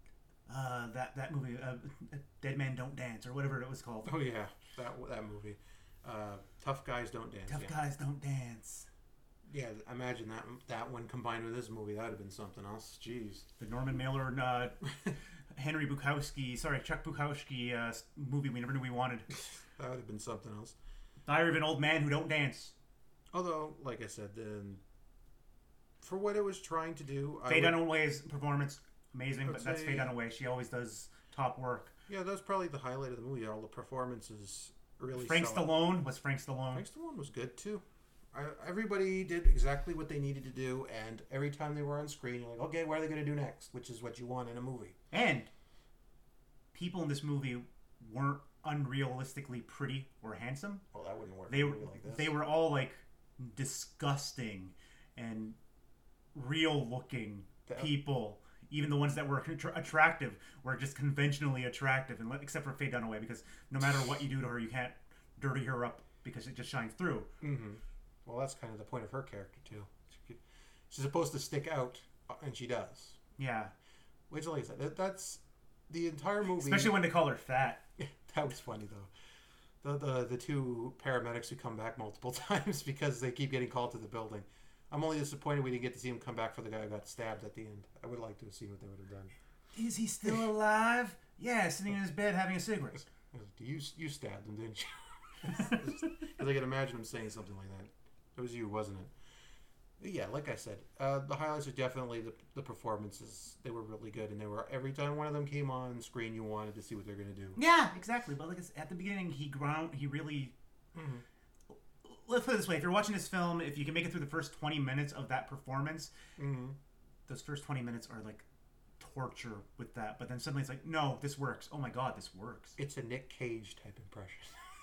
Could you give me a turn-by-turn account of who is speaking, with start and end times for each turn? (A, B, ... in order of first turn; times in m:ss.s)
0:00.5-0:04.1 A
0:04.0-0:07.8 B
0:07.5-0:08.9 A
0:09.5-0:13.5 B
0:13.6-0:14.8 A
0:15.5-0:19.3 A
0:19.8-0:20.8 B
0:21.2-0:22.7 A
0:23.3-0:24.8 B
0:26.0-0:27.8 B
0:27.5-0:31.9 A
0:29.4-0:30.1 B
0:32.1-0:35.8 B
0:35.1-0:36.9 A
0:36.7-0:45.0 B
0:45.1-0:45.5 A
0:46.7-0:50.8 A
0:50.9-0:52.4 B
0:51.5-0:55.6 A
0:56.3-1:07.3 A
0:57.7-0:57.9 B
1:07.4-1:13.2 B
1:13.4-1:13.7 A
1:14.3-1:17.0 B
1:16.6-1:17.8 A
1:18.0-1:19.1 B
1:19.8-1:29.3 B
1:29.8-1:33.0 A
1:33.0-1:39.1 B
1:40.0-1:47.6 B
1:47.6-1:50.5 A
1:50.9-1:51.2 B
1:52.0-1:56.1 A
1:56.4-1:56.8 B
1:57.3-1:58.4 A
1:59.0-2:02.8 A
2:02.8-2:04.6 B